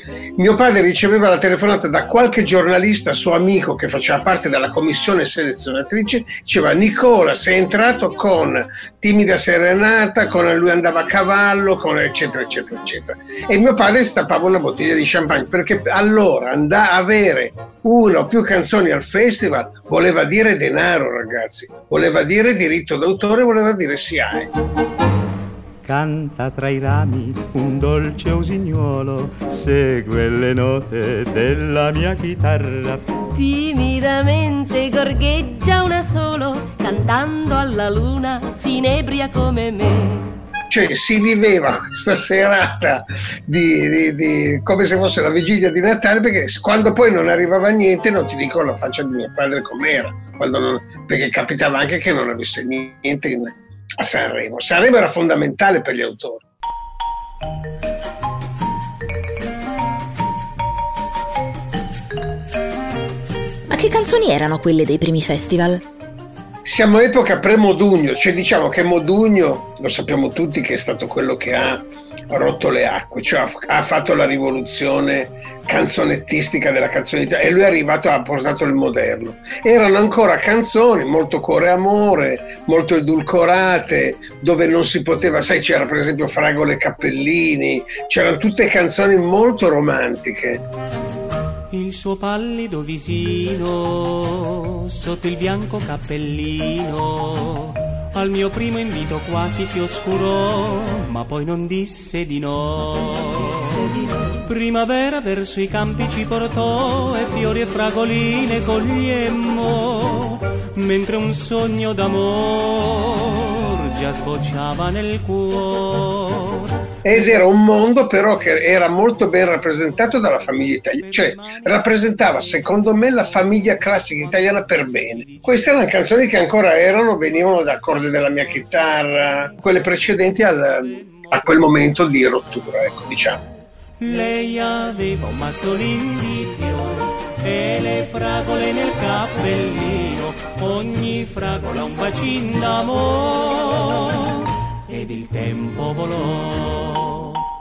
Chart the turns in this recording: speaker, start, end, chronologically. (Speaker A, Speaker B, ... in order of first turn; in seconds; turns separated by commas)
Speaker A: 0.4-24.5, Speaker B: 25.9-33.0, Speaker C: 33.3-40.3, Speaker A: 40.7-56.4, Speaker D: 63.7-65.8, Speaker A: 66.7-90.6, Speaker E: 91.7-116.8, Speaker A: 117.0-133.4, Speaker E: 134.0-147.4